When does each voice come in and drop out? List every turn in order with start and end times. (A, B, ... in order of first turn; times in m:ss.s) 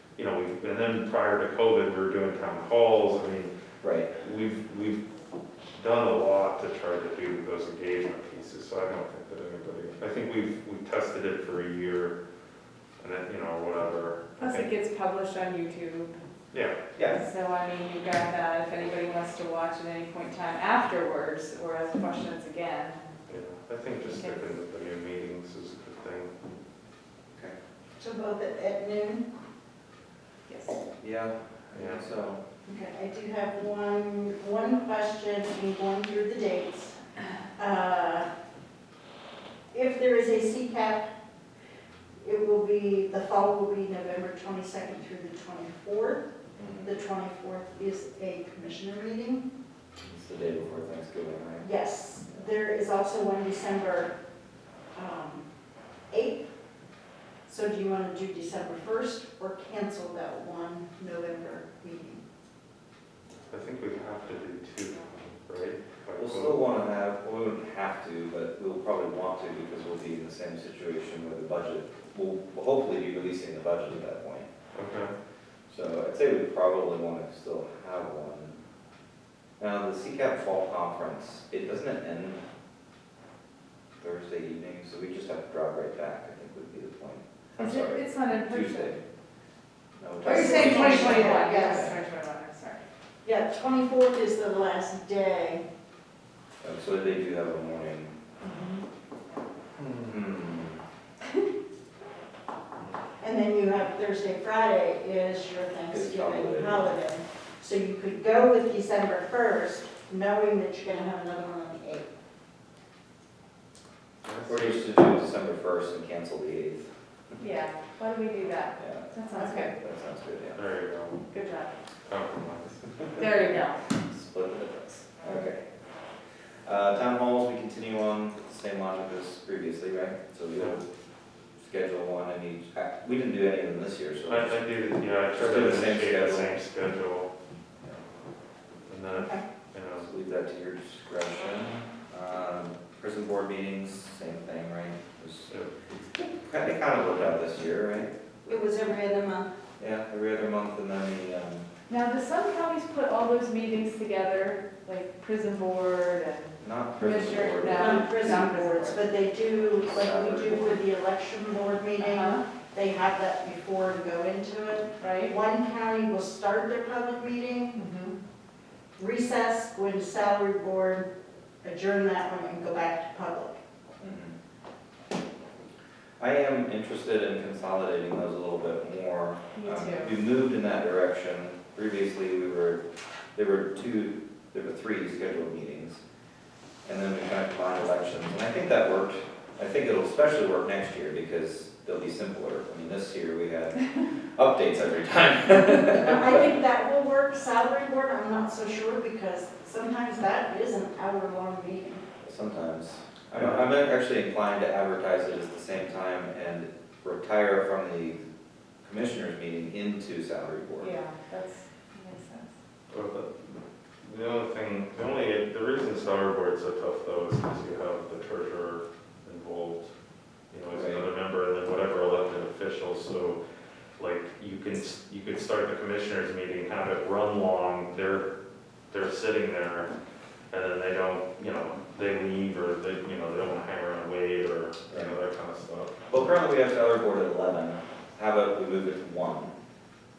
0:00.2-0:03.5 A
0:03.8-0:04.1 B
0:04.2-0:05.0 A
0:05.8-0:12.2 A
0:13.0-0:14.7 A
0:14.4-0:16.2 C
0:17.2-0:23.0 C
0:23.3-0:26.3 A
0:24.0-0:24.5 C
0:28.0-0:29.3 D
0:30.5-0:30.8 C
0:31.0-0:32.4 B
0:31.7-0:32.1 A
0:32.7-0:37.0 D
0:37.6-0:38.3 D
0:39.7-0:41.1 D
0:42.2-0:46.2 D
0:46.6-0:46.9 B
0:46.8-0:49.5 D
0:50.0-0:51.7 B
0:51.6-0:54.1 D
0:55.0-0:55.4 D
0:56.1-0:56.5 D
0:57.5-1:02.2 D
1:03.5-1:06.8 A
1:06.2-1:14.5 B
1:14.8-1:15.1 A
1:15.7-1:18.6 B
1:19.6-1:22.4 B
1:24.0-1:29.0 B
1:27.6-1:28.9 C
1:30.0-1:32.0 B
1:30.2-1:32.0 D
1:30.2-1:32.8 C
1:33.2-1:35.6 D
1:36.6-1:38.2 B
1:39.8-1:40.8 B
1:43.2-1:52.1 D
1:45.9-1:46.9 B
1:54.2-1:55.0 A
1:54.5-1:56.9 B
1:57.4-1:59.8 C
1:58.8-2:00.6 B
1:59.3-1:59.7 D
2:00.6-2:01.2 A
2:01.3-2:01.7 C
2:02.1-2:02.8 A
2:03.2-2:03.8 C
2:04.0-2:05.6 B
2:06.6-2:10.8 B
2:11.6-2:14.6 B
2:14.3-2:17.3 A
2:15.4-2:16.6 B
2:18.9-2:20.1 A
2:20.0-2:25.5 B
2:26.2-2:28.2 B
2:28.5-2:29.5 D
2:29.8-2:31.7 B
2:31.9-2:38.8 C
2:36.6-2:39.0 B
2:37.6-2:47.8 D
2:39.8-2:40.8 B
2:42.0-2:42.4 C
2:45.0-2:45.4 C
2:47.8-2:48.2 C
2:49.0-2:51.1 D
2:51.6-2:53.6 D
2:54.0-2:54.4 B
2:56.2-3:02.8 B
2:59.6-3:00.1 C
3:03.4-3:06.0 B
3:06.8-3:16.4 B
3:16.0-3:22.0 D
3:22.2-3:28.2 B
3:23.3-3:23.7 A
3:28.8-3:31.0 B
3:30.8-3:32.5 C
3:32.9-3:39.9 A
3:40.5-3:43.4 A
3:40.7-3:41.1 B
3:44.0-3:48.3 A
3:48.9-3:49.9 A
3:50.5-3:56.0 A
3:54.9-3:55.2 B
3:56.1-3:59.6 B